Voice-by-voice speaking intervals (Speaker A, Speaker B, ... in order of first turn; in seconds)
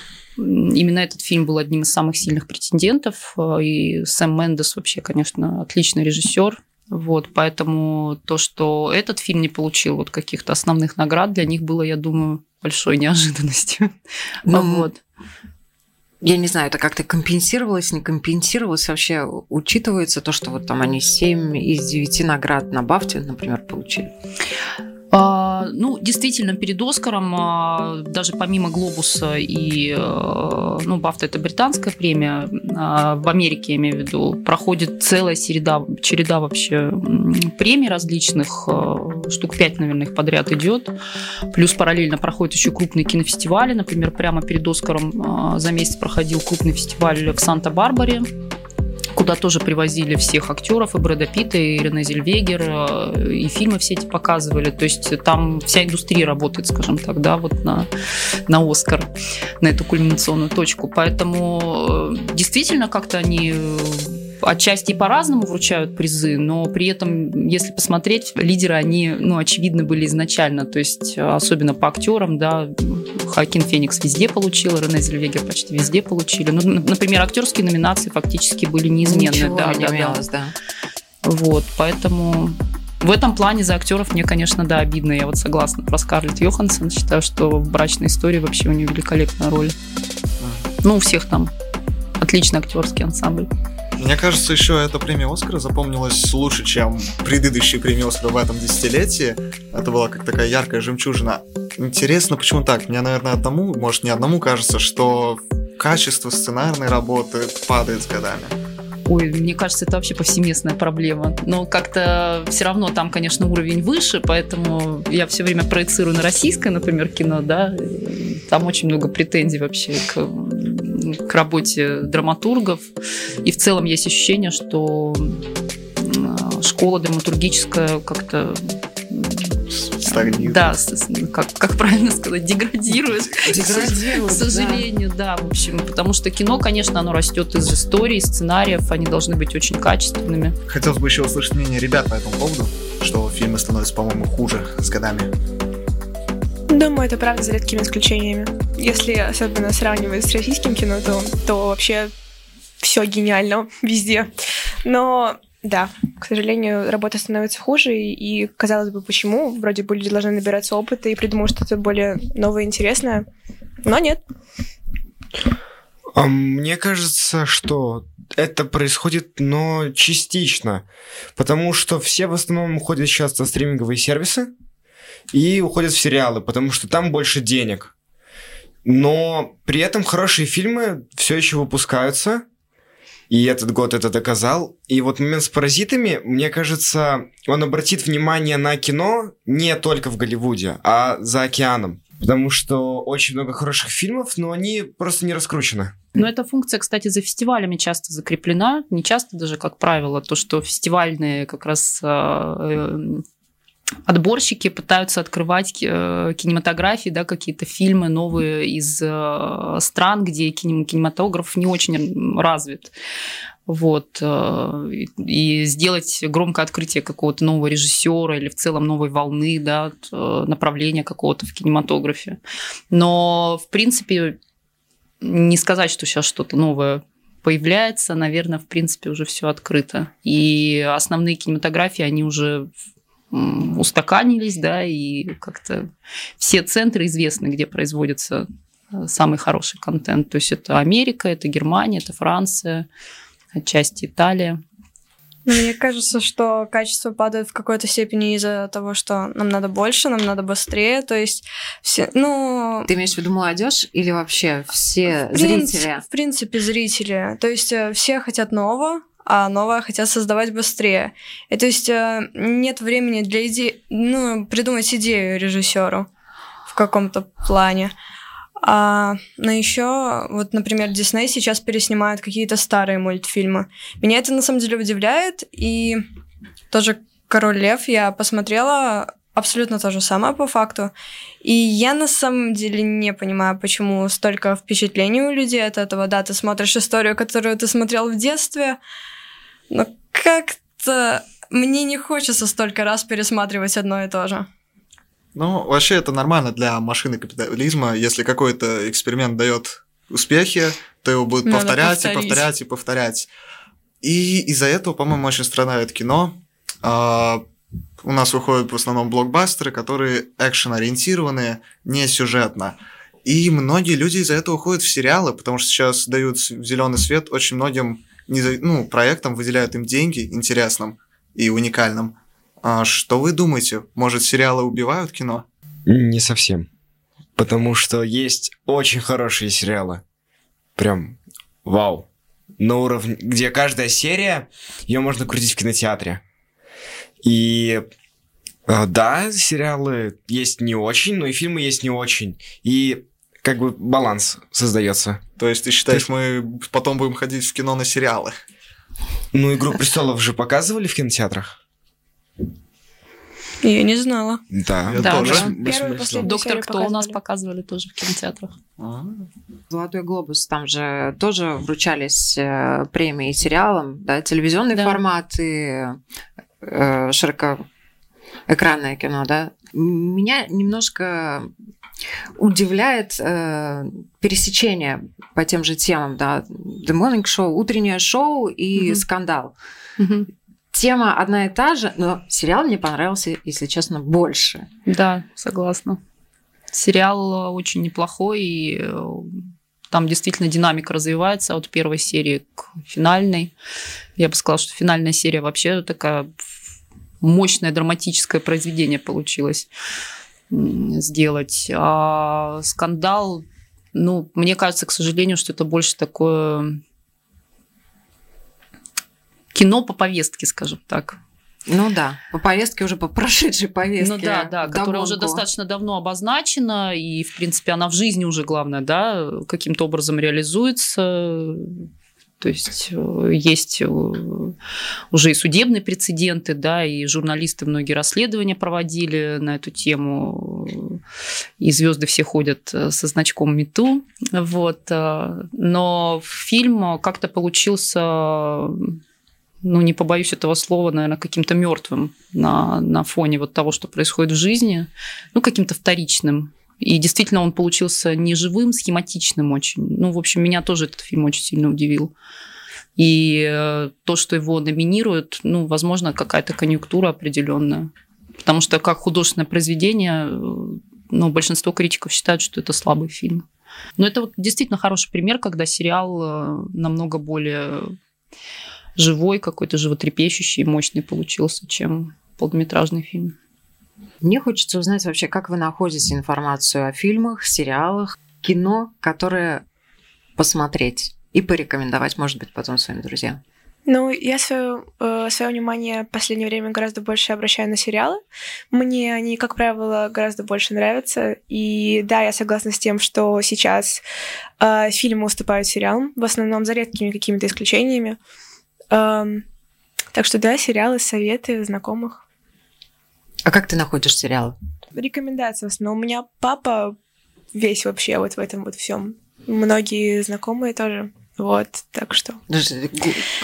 Speaker A: 0.4-13.9, 14.5-15.0, 25.1-40.9, 41.5-48.3, 49.1-57.9, 58.5-80.2, 81.2-89.8, 90.8-91.5, 92.2-93.5, 109.1-122.9, 123.4-125.4, 126.0-140.6, 196.1-203.2, 204.1-212.9, 213.7-222.4, 222.9-224.4, 225.2-232.7, 233.3-242.9, 243.5-244.6, 355.0-355.5, 356.2-358.5, 364.7-365.0, 378.8-379.0, 380.0-380.3, 384.9-386.0, 386.7-393.5, 394.2-396.3, 397.2-399.7, 400.5-406.8, 409.5-411.2, 414.0-421.9, 422.4-424.5, 425.1-431.0, 431.6-439.0, 439.6-452.1, 453.0-457.9, 458.4-463.4, 464.0-467.9, 469.0-473.4
Speaker B: 14.5-14.9, 16.2-24.1, 79.0-80.5, 133.4-134.8, 252.9-256.0, 359.7-366.0, 366.6-367.6, 368.5-371.5, 372.4-379.5, 380.7-384.7, 411.7-415.4, 474.2-479.6, 480.4-483.4, 503.4-504.6, 512.5-513.2
Speaker C: 90.4-90.7, 94.0-108.6, 129.7-130.8, 140.7-145.3, 295.3-303.3, 304.0-307.4, 308.0-325.4, 345.4-348.3, 354.9-355.8, 358.8-359.2
Speaker D: 146.7-152.1, 152.8-154.3, 154.8-163.2, 163.8-164.2, 355.0-357.1, 483.9-494.0, 494.6-498.2, 498.9-499.4, 500.1-502.2, 504.9-506.9, 507.5-512.4
Speaker E: 166.1-170.8, 171.3-174.5, 175.3-177.9, 178.8-182.4, 183.3-196.0, 325.9-326.7, 327.4-330.0, 330.8-332.1, 332.6-336.2, 337.2-337.9, 338.7-345.2, 349.3-351.6, 354.5-356.2
Speaker F: 245.5-252.9, 255.3-266.1, 266.7-267.9, 268.6-276.0, 276.7-280.9, 281.4-288.8, 289.7-294.5, 301.4-302.4, 353.6-354.4